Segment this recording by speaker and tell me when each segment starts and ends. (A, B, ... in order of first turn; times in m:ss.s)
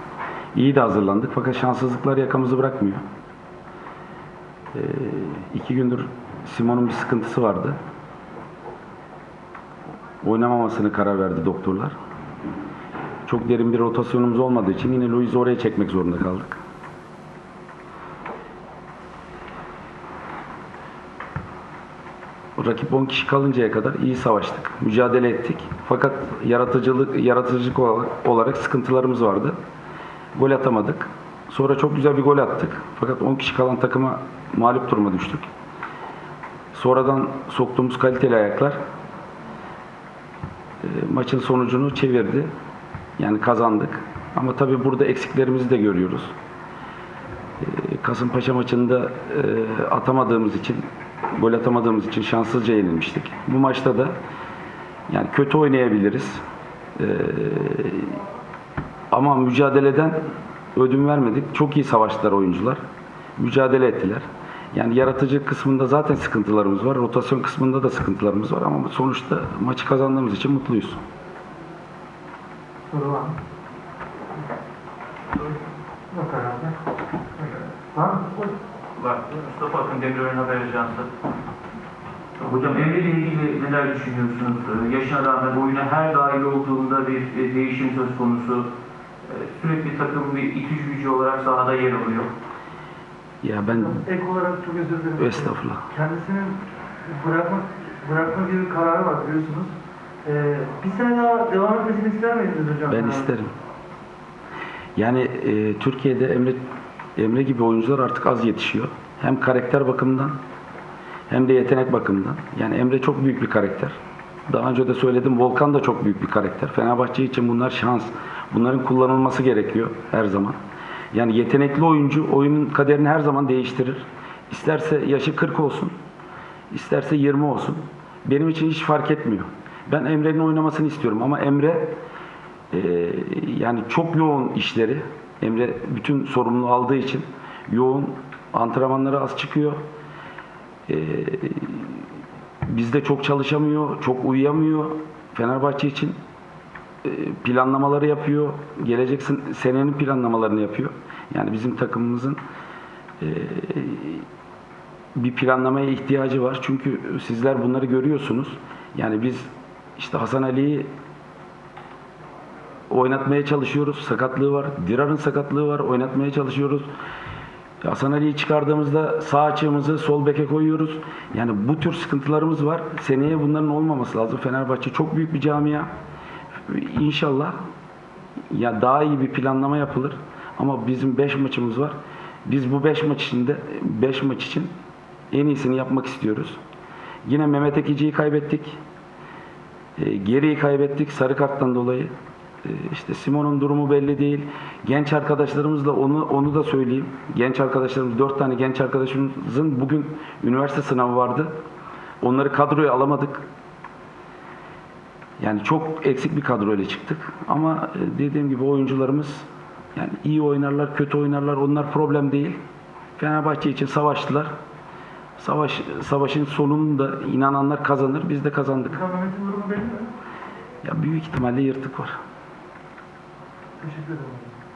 0:00.6-0:03.0 A
0:04.7-0:07.8 A
0:10.2-0:12.0 A
0:13.3-0:16.6 A
0:22.6-0:29.6 A
0:30.3-0:35.5 A
0:36.7-0:38.8 A
0:40.8-0:42.5 A
0:43.2-0:46.3 A
0:47.6-0:50.8 A
0:51.3-0:54.1 A
0:55.1-0:56.4 A
0:57.0-0:58.2 A
0:59.1-1:00.2 A
1:00.7-1:02.8 A
1:03.4-1:11.0 A
1:12.9-1:13.4 B
1:16.1-1:16.8 B
1:17.4-1:18.5 B
1:19.0-1:21.1 C
1:22.4-1:28.7 C
1:29.2-1:32.3 C
1:33.4-1:34.0 A
1:33.8-1:39.7 B
1:35.2-1:35.9 A
1:40.2-1:43.3 B
1:42.9-1:43.5 A
1:45.0-1:46.6 A
1:47.2-1:50.4 A
1:51.3-1:54.0 A
1:54.5-2:00.6 A
2:01.1-2:05.9 A
2:06.7-2:12.0 A
2:12.7-2:19.8 A
2:20.9-2:22.1 A
2:22.7-2:26.2 A
2:27.0-2:32.4 A
2:33.2-2:34.3 A
2:35.2-2:40.9 A
2:42.9-2:46.9 A
2:47.8-2:55.9 A
2:56.6-2:57.6 A
2:58.5-3:04.7 A
3:05.3-3:06.6 A
3:07.2-3:08.8 A
3:10.0-3:12.1 A
3:12.6-3:21.5 A
3:22.2-3:23.4 A
3:25.4-3:32.6 A
3:33.2-3:34.5 A
3:35.4-3:39.0 A
3:38.9-3:40.1 B
3:40.8-3:42.2 A
3:43.8-3:44.6 B